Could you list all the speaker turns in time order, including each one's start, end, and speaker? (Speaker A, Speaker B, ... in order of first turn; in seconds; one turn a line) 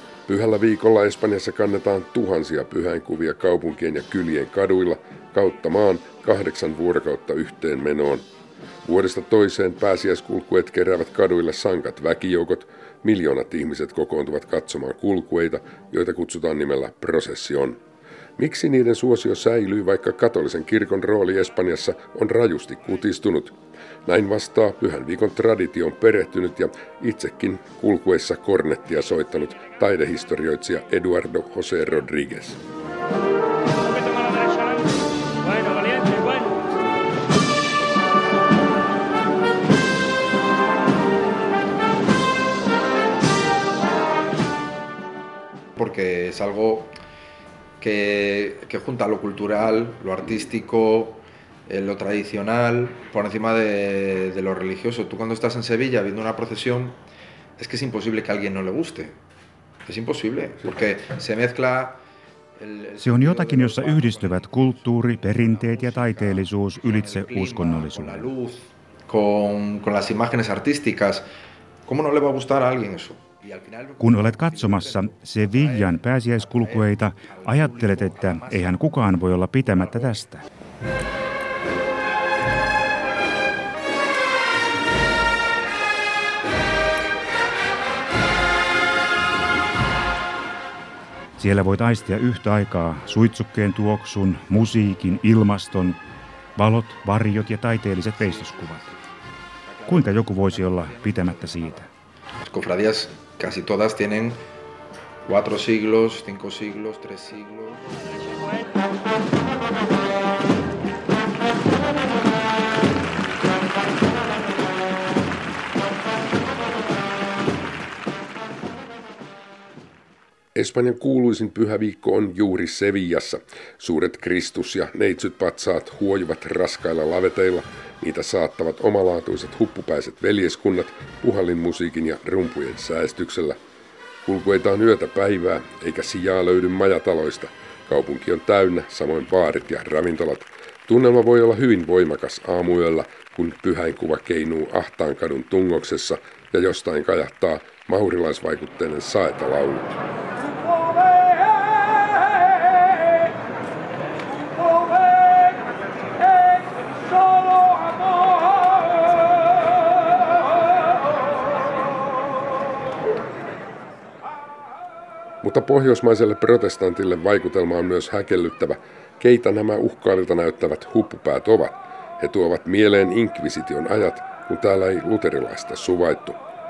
Speaker A: 0.3-8.3
Speaker A: 8.8-17.8
Speaker A: 18.4-32.6
Speaker B: 45.8-46.9
Speaker B: 47.8-57.0
Speaker B: 57.6-59.2
Speaker B: 59.9-62.0
Speaker B: 62.6-71.3
Speaker C: 63.0-68.3
Speaker B: 71.8-78.9
Speaker C: 74.0-80.4
Speaker C: 91.4-96.0
Speaker C: 96.6-98.8
Speaker B: 98.2-101.9
Speaker C: 99.9-101.9
Speaker B: 102.4-104.4
Speaker B: 105.3-108.3
Speaker A: 120.5-133.6
Speaker A: 134.2-149.9
Speaker A: 165.4-176.4